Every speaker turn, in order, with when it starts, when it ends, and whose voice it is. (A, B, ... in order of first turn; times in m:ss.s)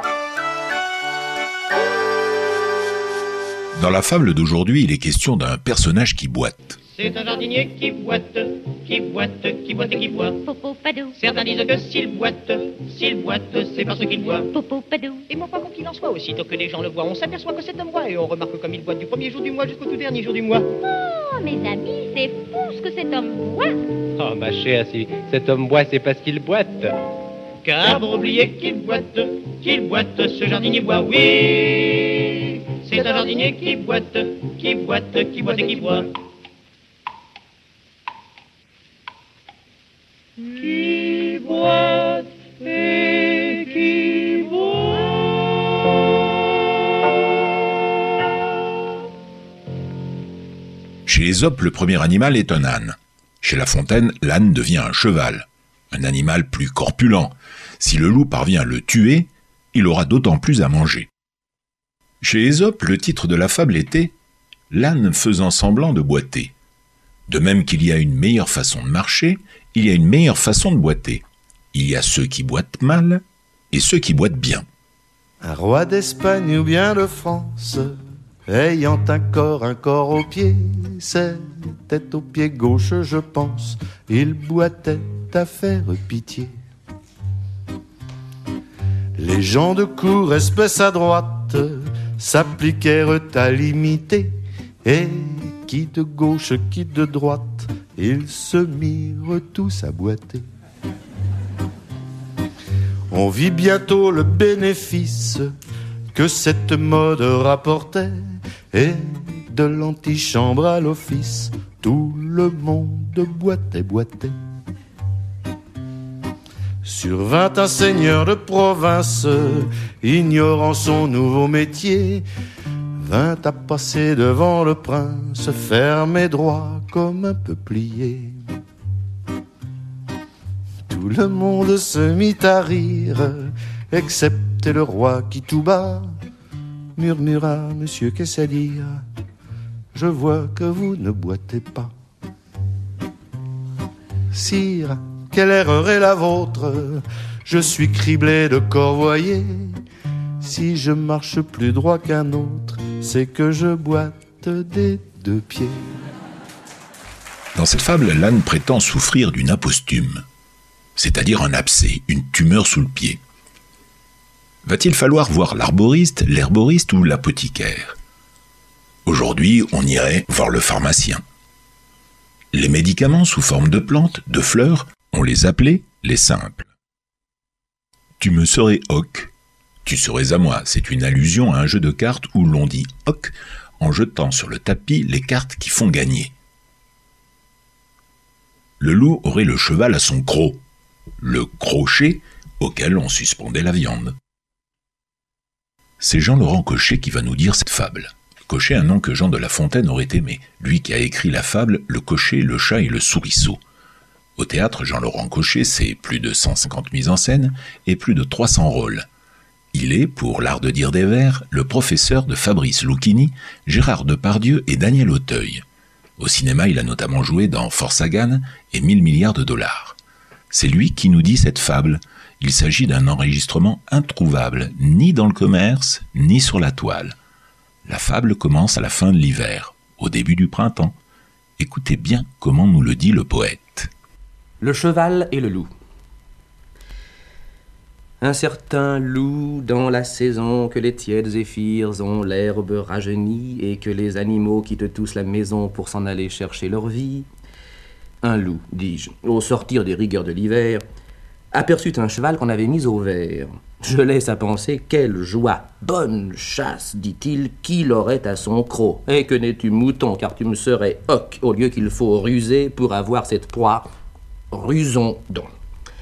0:03.7-0:06.8 A
0:06.9-0:10.4 B
0:10.4-0:11.4 C
0:11.2-0:14.5 B
0:14.5-0:15.2 C
0:15.3-0:20.7 B
0:20.8-0:23.8 C
0:24.2-0:26.9 D
0:27.6-0:36.0 B
0:40.4-0:44.8 B
0:51.0-1:01.1 A
1:02.2-1:04.1 A
1:04.7-1:06.5 A
1:07.3-1:14.6 A
1:15.4-1:17.9 E
1:18.5-1:26.5 E
1:29.2-1:34.3 E
1:34.8-1:40.4 E
1:43.1-1:45.5 E
1:46.1-1:48.1 E
1:48.7-1:54.3 E
1:56.8-2:02.2 E
2:03.0-2:08.4 E
2:10.9-2:16.1 E
2:17.0-2:19.0 E
2:19.9-2:21.9 E
2:24.3-2:29.7 E
2:30.4-2:35.8 E
2:37.5-2:40.2 A
2:41.0-2:43.2 A
2:44.6-2:47.9 A
2:49.0-2:51.2 A
2:52.5-2:56.6 A
2:58.2-2:59.3 A
2:59.8-3:06.3 A
3:08.8-3:10.6 A
3:11.2-3:14.1 A
3:16.0-3:23.6 A
3:24.4-3:29.0 A
3:29.7-3:35.6 A
3:36.2-3:40.0 A
3:40.5-3:47.1 A
3:47.8-3:50.9 A
3:51.6-3:53.9 A
3:54.6-3:55.7 F
3:58.2-4:07.3 F
4:08.2-4:10.8 F
4:11.5-4:23.9 F
4:24.5-4:25.5 F